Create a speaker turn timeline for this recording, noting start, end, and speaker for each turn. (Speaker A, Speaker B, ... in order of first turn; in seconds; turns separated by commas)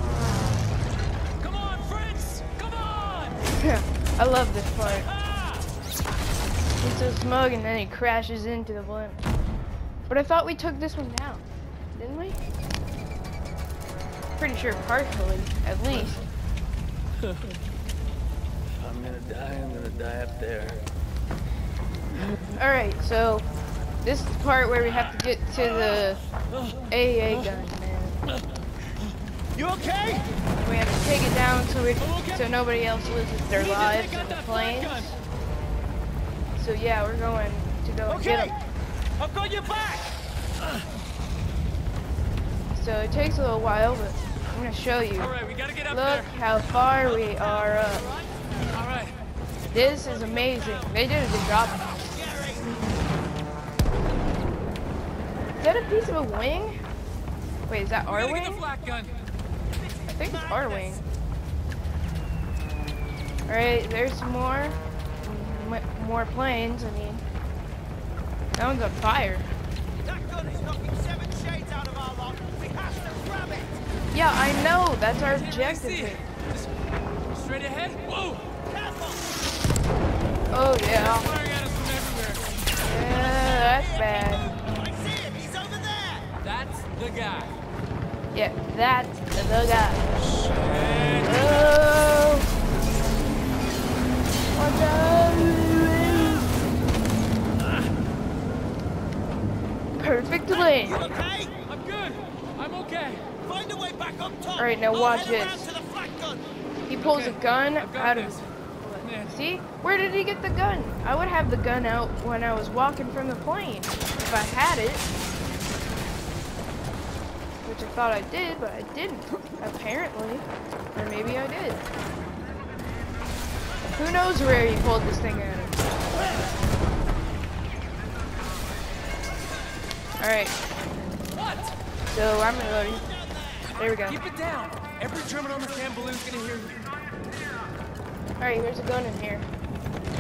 Speaker A: 1.4-3.4, Speaker B: 3.5-5.1, Speaker B: 6.8-9.3, Speaker B: 10.1-12.4, Speaker B: 14.4-16.2, Speaker C: 18.8-20.8, Speaker B: 22.5-23.5, Speaker B: 24.0-26.2, Speaker B: 26.9-28.2, Speaker D: 29.6-30.2, Speaker A: 29.7-30.1, Speaker B: 30.6-35.2, Speaker A: 32.1-32.4, Speaker A: 33.5-35.1, Speaker B: 36.6-38.5, Speaker D: 39.3-39.9, Speaker A: 39.5-40.0, Speaker B: 42.7-45.3, Speaker A: 45.2-46.3, Speaker B: 45.9-48.1, Speaker A: 48.7-49.1, Speaker B: 49.7-52.1, Speaker D: 52.2-52.5, Speaker B: 55.6-56.8, Speaker B: 57.7-58.6, Speaker A: 58.1-59.2, Speaker B: 60.1-61.0, Speaker B: 63.5-67.2, Speaker B: 68.5-69.5, Speaker D: 70.0-73.8, Speaker B: 74.1-76.2, Speaker A: 75.3-76.7, Speaker A: 77.3-78.5, Speaker D: 78.7-79.3, Speaker B: 80.5-81.4, Speaker A: 80.9-82.6, Speaker B: 82.8-84.5, Speaker D: 83.3-86.3, Speaker A: 86.4-87.6, Speaker B: 88.3-90.1, Speaker A: 90.5-91.4, Speaker B: 91.2-92.5, Speaker B: 94.5-96.5, Speaker B: 100.0-101.1, Speaker D: 100.9-101.6, Speaker A: 101.7-103.4, Speaker D: 103.4-106.5, Speaker B: 104.6-105.7, Speaker B: 106.8-115.1, Speaker A: 107.0-108.4, Speaker A: 109.0-109.3, Speaker B: 117.6-121.8, Speaker B: 124.0-126.0, Speaker B: 130.2-130.6, Speaker A: 131.3-131.8, Speaker B: 132.1-134.2, Speaker A: 134.1-136.8, Speaker B: 138.4-139.5